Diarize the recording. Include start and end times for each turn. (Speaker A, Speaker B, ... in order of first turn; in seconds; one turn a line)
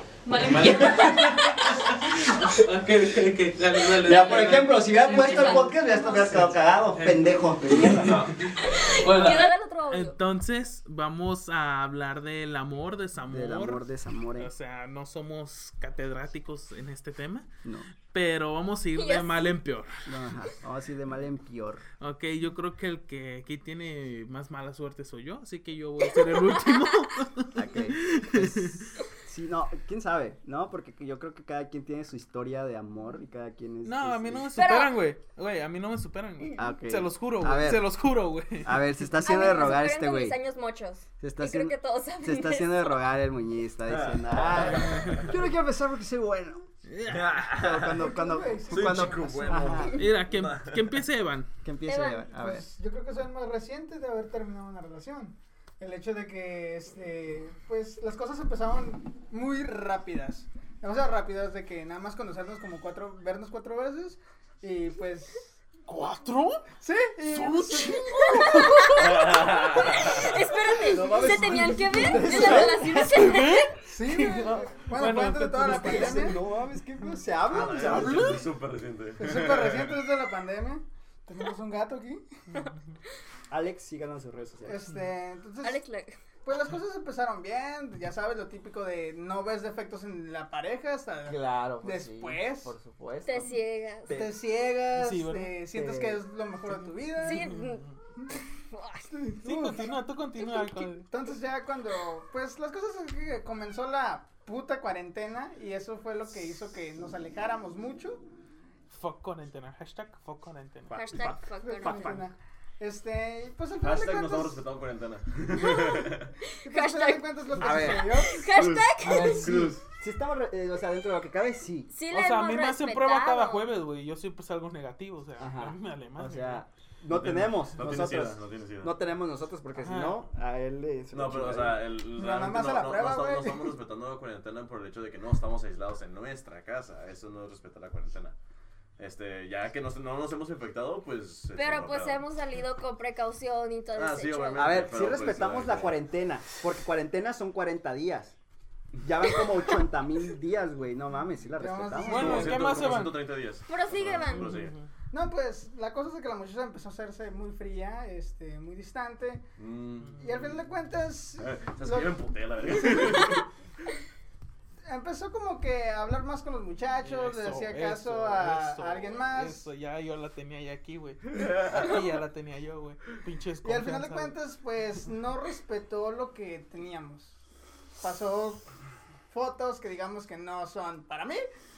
Speaker A: 0.3-1.9
Speaker B: 0.4-13.8
Speaker C: 0.5-0.8
Speaker C: 4.0-8.2
Speaker A: 4.9-6.5
Speaker D: 7.9-8.3
Speaker A: 8.6-10.2
Speaker C: 13.3-14.5
Speaker B: 14.4-20.0
Speaker A: 18.9-19.4
Speaker C: 20.1-21.8
Speaker B: 22.0-29.1
Speaker A: 26.4-27.0
Speaker C: 27.5-34.6
Speaker B: 33.8-38.8
Speaker A: 34.5-35.0
Speaker C: 36.5-37.9
Speaker C: 38.6-40.4
Speaker A: 39.2-43.0
Speaker C: 41.2-46.7
Speaker D: 43.9-45.3
Speaker B: 44.7-45.4
Speaker B: 46.9-47.6
Speaker D: 47.0-48.1
Speaker C: 47.6-50.1
Speaker E: 48.0-49.8
Speaker D: 48.7-51.0
Speaker B: 49.9-51.5
Speaker C: 51.6-52.7
Speaker A: 51.9-52.3
Speaker E: 52.3-65.5
Speaker B: 65.9-66.7
Speaker E: 66.8-69.0
Speaker B: 67.3-68.8
Speaker A: 68.1-73.7
Speaker D: 68.9-70.4
Speaker C: 70.8-73.2
Speaker E: 71.9-72.7
Speaker B: 72.4-76.1
Speaker E: 73.8-76.4
Speaker C: 75.6-78.4
Speaker D: 77.5-80.0
Speaker E: 77.5-78.4
Speaker B: 77.9-78.4
Speaker E: 79.2-82.2
Speaker C: 83.5-84.8
Speaker E: 84.7-85.8
Speaker A: 85.6-86.2
Speaker E: 86.5-92.7
Speaker C: 91.3-94.3
Speaker A: 93.2-94.2
Speaker E: 94.1-97.5
Speaker B: 94.9-95.6
Speaker C: 95.7-96.2
Speaker A: 97.2-99.2
Speaker B: 97.3-97.9
Speaker E: 99.1-99.9
Speaker B: 99.4-101.1
Speaker A: 100.4-100.9
Speaker E: 101.1-108.2
Speaker B: 108.9-110.9
Speaker C: 110.9-112.2
Speaker A: 110.9-112.2
Speaker E: 111.6-114.6
Speaker D: 113.8-116.3
Speaker A: 115.5-119.5
Speaker E: 116.6-118.5
Speaker C: 117.6-118.3
Speaker D: 118.5-119.8
Speaker C: 119.0-121.9
Speaker A: 121.9-123.7
Speaker B: 122.1-126.7
Speaker C: 125.4-131.8
Speaker D: 127.1-129.0
Speaker B: 129.8-130.2
Speaker D: 131.1-138.4
Speaker E: 132.2-133.8
Speaker D: 139.0-142.2
Speaker A: 141.6-144.7
Speaker D: 143.9-146.0
Speaker C: 144.6-148.4
Speaker C: 149.0-153.0
Speaker E: 151.6-152.6
Speaker B: 152.0-153.3
Speaker D: 152.1-154.7
Speaker A: 153.7-154.6
Speaker B: 154.3-154.9
Speaker E: 155.1-159.4
Speaker D: 159.6-160.2
Speaker B: 160.0-160.6
Speaker E: 160.2-162.2
Speaker D: 161.4-163.5
Speaker E: 164.8-169.7
Speaker B: 167.0-174.3
Speaker D: 171.4-171.8
Speaker E: 173.6-177.3
Speaker E: 178.0-178.6
Speaker E: 179.3-181.4